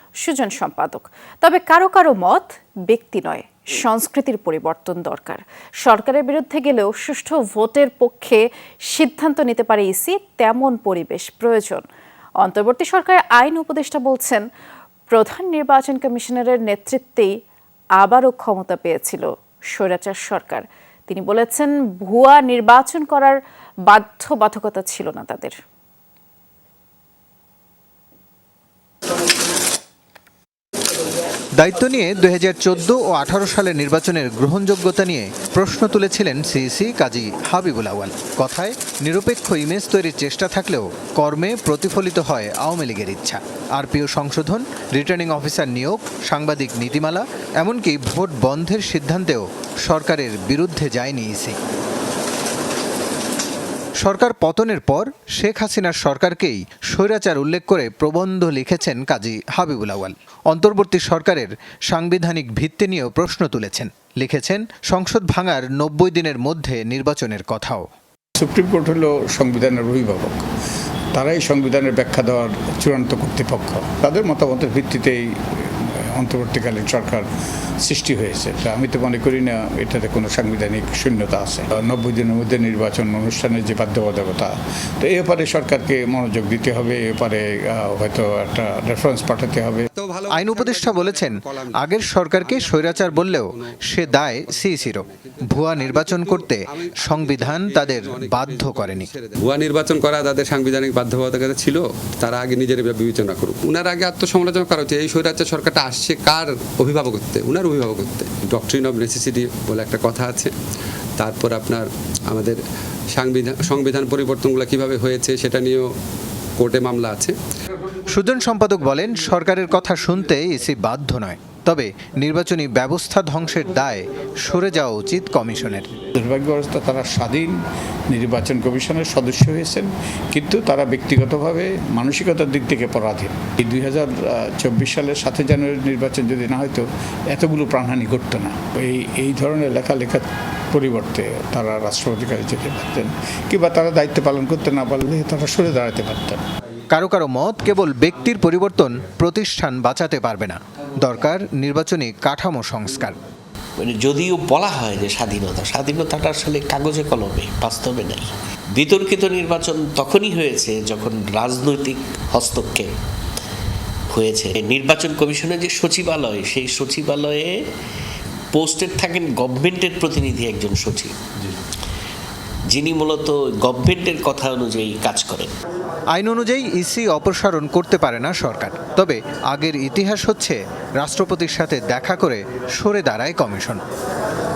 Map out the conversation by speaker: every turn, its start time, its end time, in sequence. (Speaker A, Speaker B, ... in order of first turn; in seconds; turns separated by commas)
Speaker A: 0.2-11.8, Speaker A: 12.4-14.4, Speaker A: 15.1-17.4, Speaker A: 18.0-25.6, Speaker B: 31.6-51.6, Speaker B: 54.0-67.8, Speaker C: 68.4-70.4, Speaker C: 71.1-77.3, Speaker C: 77.8-89.9, Speaker D: 89.9-110.5, Speaker B: 90.3-99.1, Speaker D: 111.2-112.6, Speaker D: 113.1-115.8, Speaker D: 116.6-117.3, Speaker B: 118.1-125.9, Speaker C: 126.1-127.5, Speaker C: 128.1-146.4, Speaker B: 146.9-153.2, Speaker E: 153.8-162.9, Speaker E: 164.1-167.6, Speaker E: 168.5-171.5, Speaker E: 172.7-175.5, Speaker B: 176.1-183.8